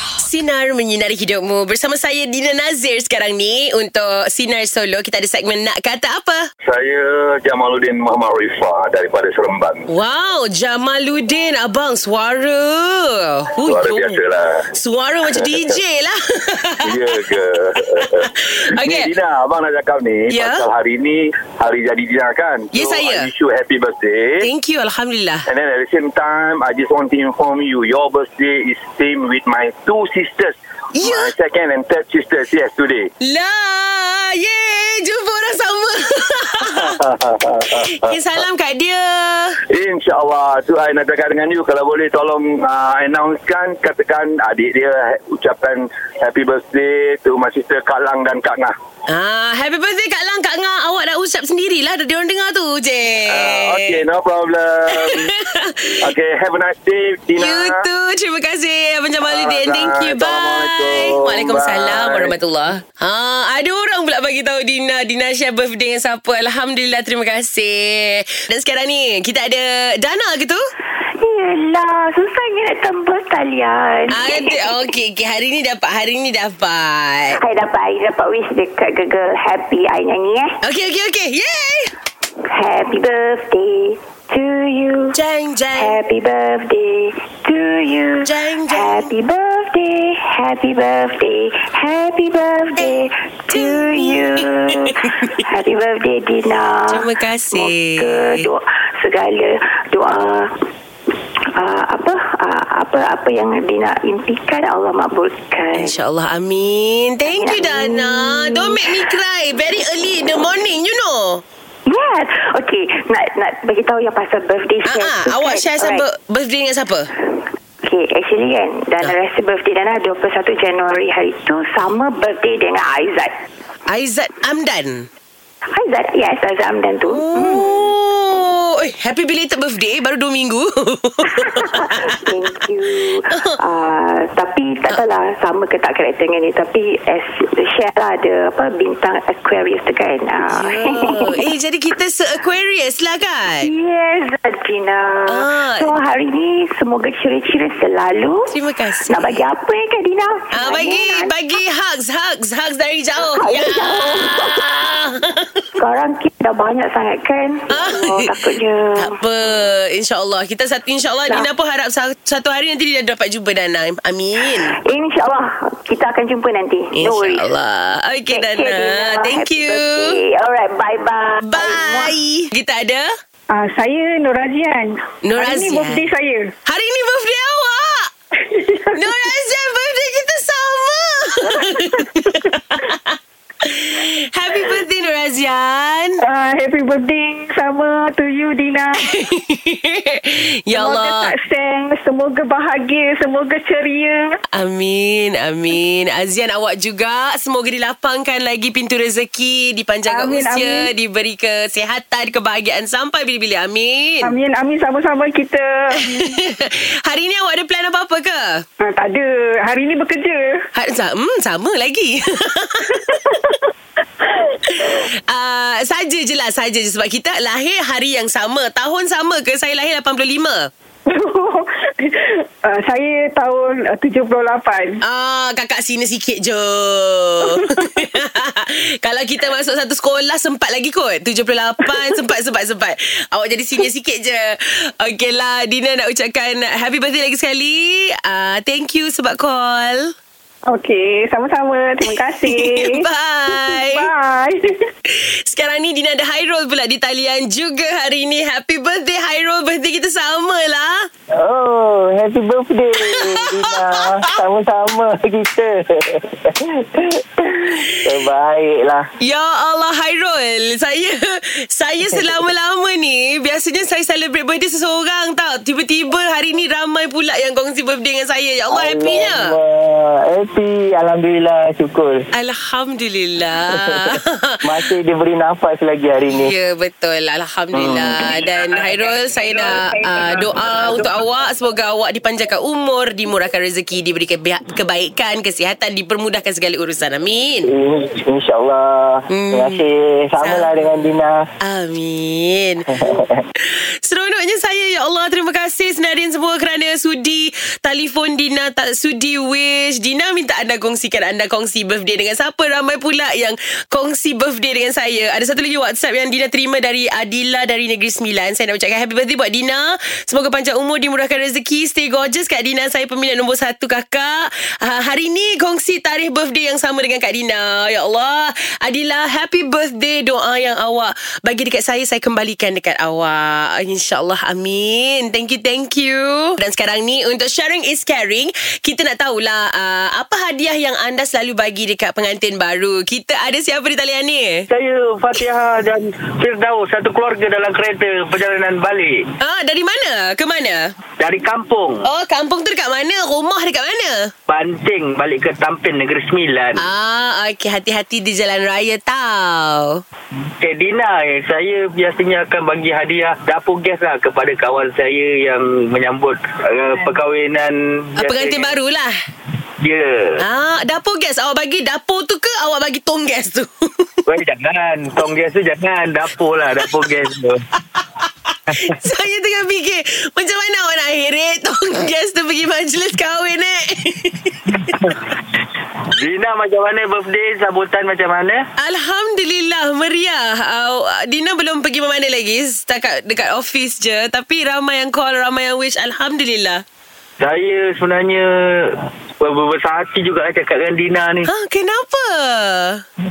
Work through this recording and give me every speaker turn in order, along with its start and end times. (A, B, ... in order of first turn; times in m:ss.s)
0:00.2-0:06.4 A
0:06.6-0:09.9 B
0:09.9-0:17.2 A
0:13.6-0:14.6 B
0:15.4-0:15.6 B
0:16.8-0:24.5 B
0:18.3-0:19.1 A
0:20.3-0:20.6 A
0:22.7-0:23.3 A
0:24.4-0:25.5 A
0:25.5-0:33.1 B
0:31.0-0:31.3 A
0:33.2-0:37.0 A
0:36.7-0:38.1 B
0:37.7-0:39.6 A
0:39.7-0:48.7 B
0:49.1-0:54.0 A
0:53.3-0:55.3 B
0:55.0-0:56.0 A
0:56.0-0:57.8 B
0:57.4-1:10.6 A
0:59.2-1:02.3 B
1:11.2-1:14.8 C
1:14.1-1:17.4 A
1:17.4-1:20.6 C
1:20.6-1:21.9 A
1:22.5-1:25.1 C
1:25.1-1:26.0 A
1:25.8-1:40.5 C
1:28.2-1:29.1 A
1:33.5-1:34.9 A
1:36.9-1:38.5 A
1:41.6-1:46.0 C
1:45.7-1:51.4 A
1:47.3-1:49.0 C
1:51.9-1:56.0 C
1:54.8-1:57.1 A
1:57.8-2:03.3 C
2:03.9-2:05.1 A
2:05.7-2:07.9 C
2:07.1-2:12.0 A
2:11.3-2:21.4 C
2:20.5-2:23.7 A
2:23.6-2:28.5 C
2:25.3-2:25.9 A
2:28.5-2:29.4 A
2:29.1-2:31.3 C
2:30.5-2:35.6 A
2:33.3-2:34.6 C
2:35.8-2:39.1 C
2:37.7-2:38.2 A
2:39.0-2:44.7 A
2:44.8-2:47.5 C
2:46.9-2:50.2 A
2:48.3-2:52.1 C
2:51.4-2:53.0 A
2:53.5-2:56.5 D
2:55.2-2:56.1 A
2:56.7-2:58.1 A
2:58.4-2:58.9 D
2:58.9-3:06.2 A
3:06.2-3:09.1 D
3:09.0-3:11.3 A
3:10.7-3:14.4 D
3:14.5-3:24.3 A
3:20.0-3:20.9 D
3:24.2-3:26.2 D
3:26.0-3:28.6 A
3:28.8-3:30.6 D
3:30.7-3:33.3 A
3:34.7-3:40.7 A
3:41.0-3:45.0 D
3:45.0-4:00.1 A
4:00.6-4:04.6 D
4:02.0-4:04.1 A
4:05.1-4:11.1 A
4:11.3-4:17.2 E
4:17.5-4:17.9 A
4:18.0-4:19.0 E
4:19.2-4:29.5 A
4:28.7-4:32.3 E
4:32.3-4:34.6 A
4:33.7-4:36.5 E
4:36.3-4:47.7 A
4:37.9-4:38.1 E
4:47.6-4:51.5 E
4:49.3-4:49.8 A
4:50.4-4:51.1 A
4:51.6-4:52.9 A
4:53.0-4:53.4 E
4:53.6-5:34.6 A
5:34.7-5:39.1 F
5:39.4-5:40.8 A
5:41.2-5:42.0 F
5:42.0-5:44.3 A
5:44.5-5:46.8 F
5:46.7-5:50.0 A
5:50.6-5:58.7 F
5:58.2-5:59.1 A
5:59.8-6:00.4 F
6:00.4-6:04.1 A
6:04.3-6:07.6 F
6:07.9-6:14.8 A
6:14.9-6:15.2 F
6:16.1-6:18.6 F
6:18.8-6:26.8 A
6:27.4-6:31.5 F
6:31.5-6:33.0 A